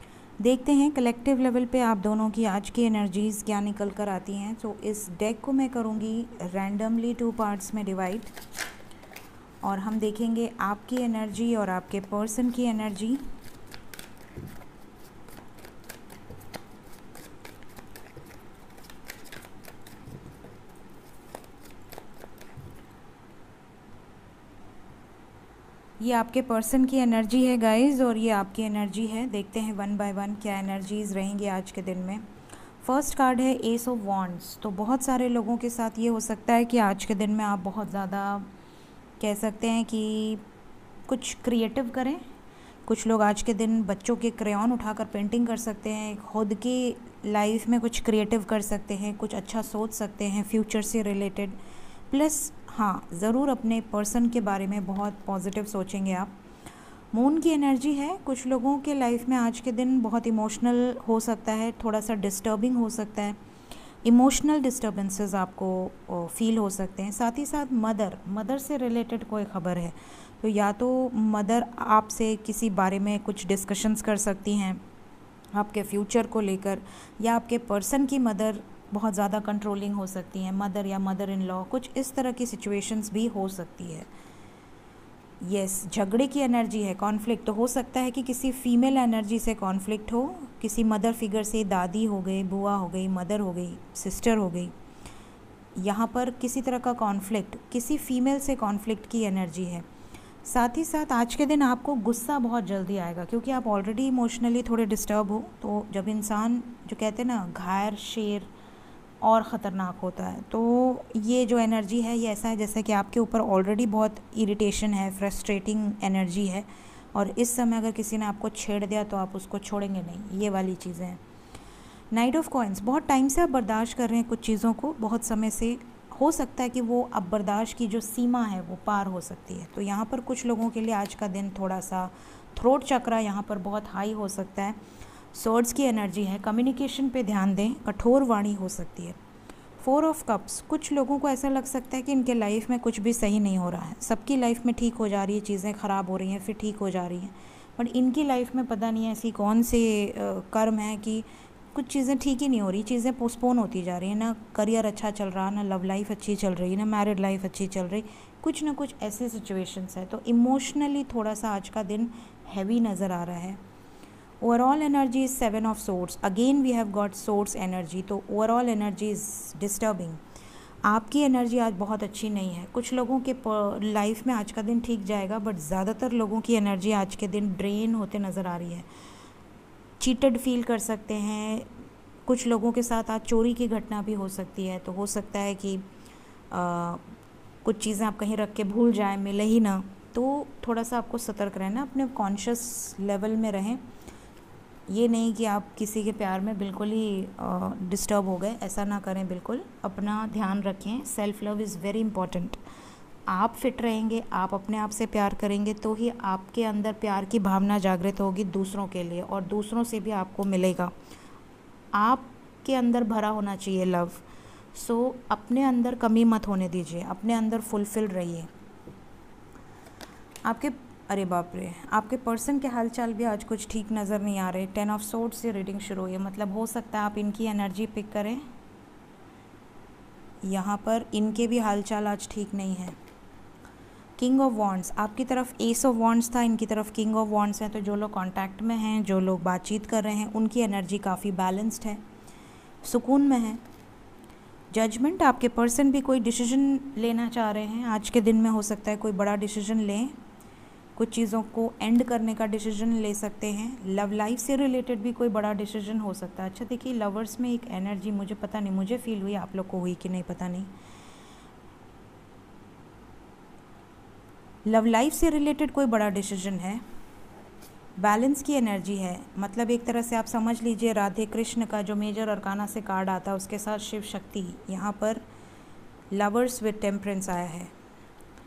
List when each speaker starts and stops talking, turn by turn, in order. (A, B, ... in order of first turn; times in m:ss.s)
0:00.4-0:08.3 A
0:09.6-0:13.2 A
0:26.0-0:32.2 A
0:32.8-0:38.5 A
0:39.2-0:40.4 A
0:41.1-0:42.2 A
0:42.9-0:51.6 A
0:52.1-0:56.3 A
0:57.1-1:03.4 A
1:04.0-1:14.8 A
1:15.5-1:24.1 A
1:25.4-1:34.7 A
1:35.8-1:39.9 A
1:40.4-1:48.5 A
1:49.2-2:01.2 A
2:02.1-2:14.8 A
2:15.3-2:19.2 A
2:19.8-2:43.6 A
2:44.4-2:50.2 A
2:50.8-2:58.9 A
3:00.0-3:01.7 A
3:02.3-3:05.8 A
3:06.5-3:07.0 A
3:07.6-3:13.8 A
3:14.9-3:22.6 A
3:23.3-3:30.9 A
3:31.9-3:38.5 A
3:40.4-3:48.4 A
3:50.4-3:53.0 A
3:54.2-4:02.0 A
4:02.8-4:03.6 A
4:04.7-4:10.2 A
4:11.0-4:20.7 A
4:24.6-4:26.8 A
4:28.0-4:35.2 A
4:36.1-4:37.7 A